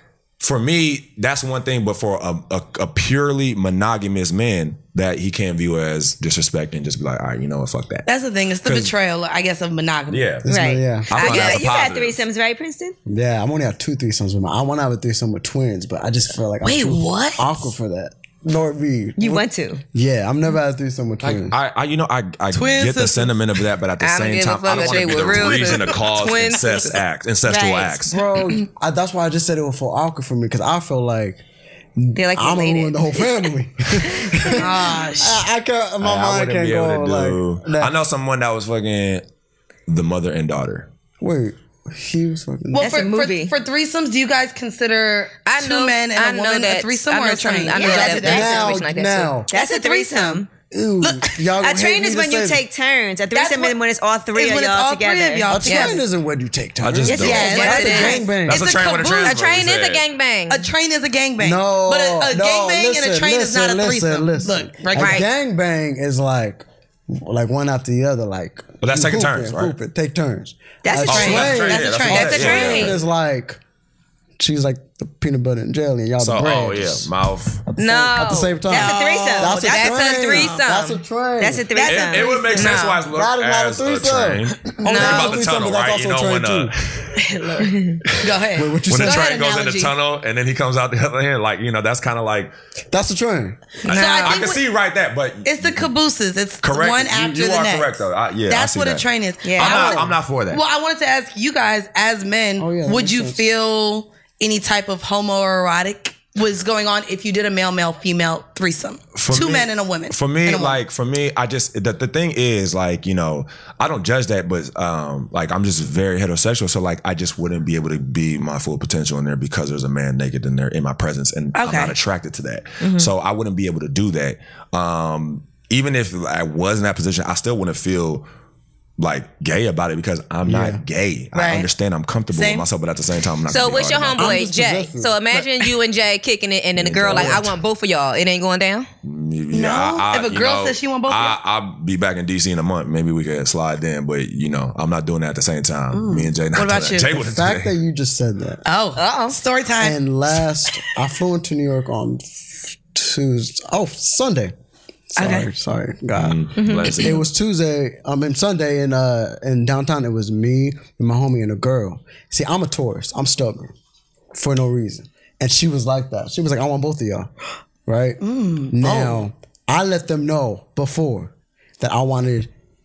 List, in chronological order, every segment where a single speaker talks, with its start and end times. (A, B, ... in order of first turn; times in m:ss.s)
0:00.4-0:08.1 A
0:08.0-0:10.4 B
0:08.6-0:08.9 A
0:10.1-0:10.5 A
0:10.4-0:11.1 C
0:10.4-0:13.0 D
0:11.1-0:12.2 A
0:11.1-0:11.6 E
0:13.1-0:21.5 C
0:16.6-0:17.4 B
0:19.2-0:19.8 D
0:21.2-0:28.2 A
0:22.5-0:23.4 B
0:24.0-0:27.0 E
0:27.5-0:28.1 D
0:28.1-0:31.4 C
0:32.0-0:37.9 C
0:32.1-0:33.2 D
0:34.1-0:34.6 D
0:34.6-0:35.4 B
0:36.0-0:39.2 A
0:39.9-0:40.9 A
0:41.2-0:43.0 C
0:42.7-0:48.8 B
0:42.7-0:43.5 D
0:45.4-0:49.3 E
0:47.8-0:49.5 C
0:49.5-0:50.4 B
0:49.5-0:50.5 D
0:50.7-0:52.6 C
0:51.0-0:51.4 B
0:51.6-0:55.6 D
0:53.3-0:53.8 B
0:54.3-0:56.0 B
0:55.5-0:58.6 C
0:55.6-0:56.0 E
0:56.8-0:57.6 A
0:57.1-0:58.2 D
0:57.2-0:59.5 B
0:57.4-0:58.3 E
0:58.4-1:00.0 A
0:59.0-1:00.7 E
1:00.5-1:05.2 B
1:01.4-1:13.6 C
1:04.9-1:05.2 E
1:08.8-1:09.7 A
1:10.8-1:11.6 D
1:11.0-1:13.0 A
1:11.1-1:12.9 B
1:12.0-1:13.0 E
1:14.4-1:17.1 C
1:16.2-1:17.7 A
1:17.7-1:21.8 C
1:17.8-1:21.0 E
1:18.7-1:20.5 D
1:18.7-1:19.6 B
1:21.4-1:22.4 D
1:21.8-1:22.8 B
1:21.8-1:27.2 A
1:22.4-1:23.0 E
1:23.1-1:26.7 C
1:24.7-1:25.4 B
1:24.8-1:25.3 E
1:27.2-1:29.9 B
1:27.7-1:28.0 D
1:28.0-1:32.5 A
1:28.6-1:29.2 C
1:32.9-1:33.7 C
1:33.8-1:34.6 B
1:33.8-1:35.9 A
1:34.0-1:34.4 E
1:35.4-1:50.8 B
1:36.6-1:40.6 A
1:39.4-1:40.0 D
1:42.6-1:43.4 C
1:49.1-2:08.3 A
2:01.6-2:01.9 B
2:02.8-2:03.1 D
2:09.0-2:14.4 A
2:10.4-2:10.8 C
2:11.3-2:11.7 B
2:12.3-2:12.6 B
2:13.5-2:18.9 E
2:14.2-2:15.5 C
2:16.8-2:17.5 A
2:19.0-2:27.7 A
2:19.5-2:21.4 B
2:25.9-2:27.2 B
2:27.1-2:28.6 C
2:28.6-2:30.0 B
2:29.0-2:29.4 E
2:29.8-2:34.5 C
2:35.1-2:43.7 C
2:35.2-2:35.5 B
2:36.2-2:37.3 A
2:36.6-2:37.0 E
2:36.9-2:37.2 B
2:44.3-2:47.3 C
2:47.8-2:52.5 C
2:48.2-2:49.2 B